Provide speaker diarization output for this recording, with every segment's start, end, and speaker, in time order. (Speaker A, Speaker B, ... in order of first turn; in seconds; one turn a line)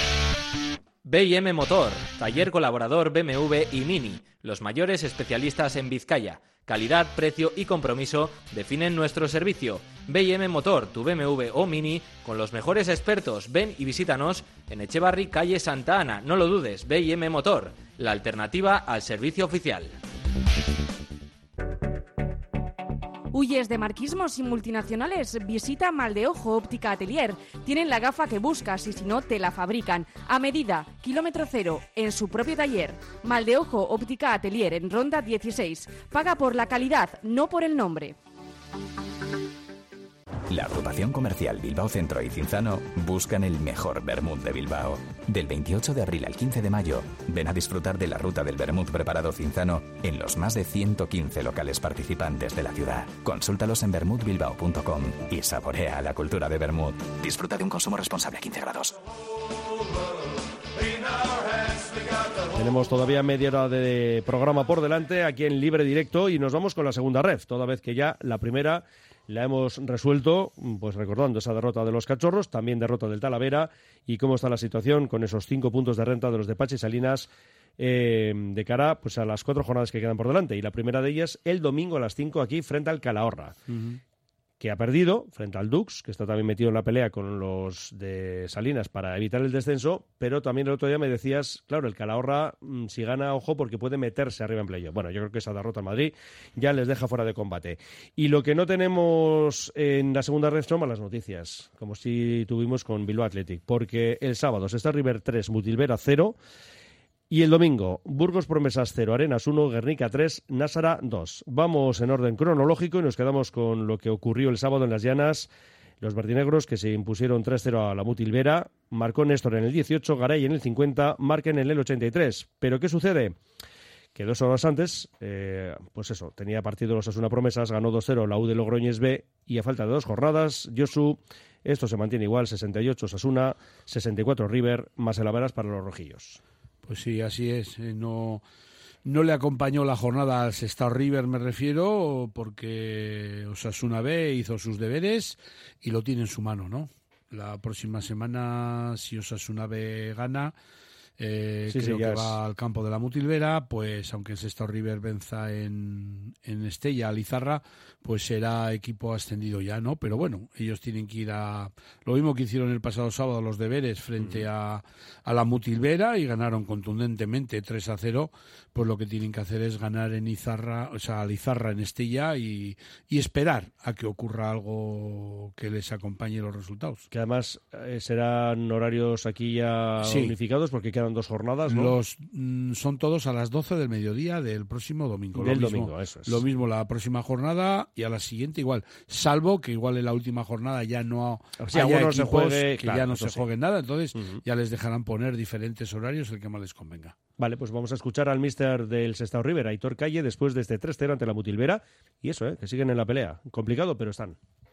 Speaker A: 1.0-19.9
Speaker B: 23.3-38.1
Speaker C: 40.5-58.9
Speaker D: 62.5-83.6
Speaker E: 83.7-84.0
Speaker D: 84.6-106.4
Speaker D: 107.3-115.5
Speaker D: 116.0-123.3
Speaker D: 124.1-136.4
Speaker E: 136.8-138.4
Speaker E: 139.0-150.5
Speaker E: 151.2-177.0
Speaker D: 151.7-152.4
Speaker D: 164.2-164.4
Speaker D: 177.1-181.9
Speaker E: 180.0-180.3
Speaker E: 181.7-197.2
Speaker D: 185.3-186.4
Speaker D: 191.6-193.4
Speaker D: 194.2-194.4
Speaker D: 197.4-204.4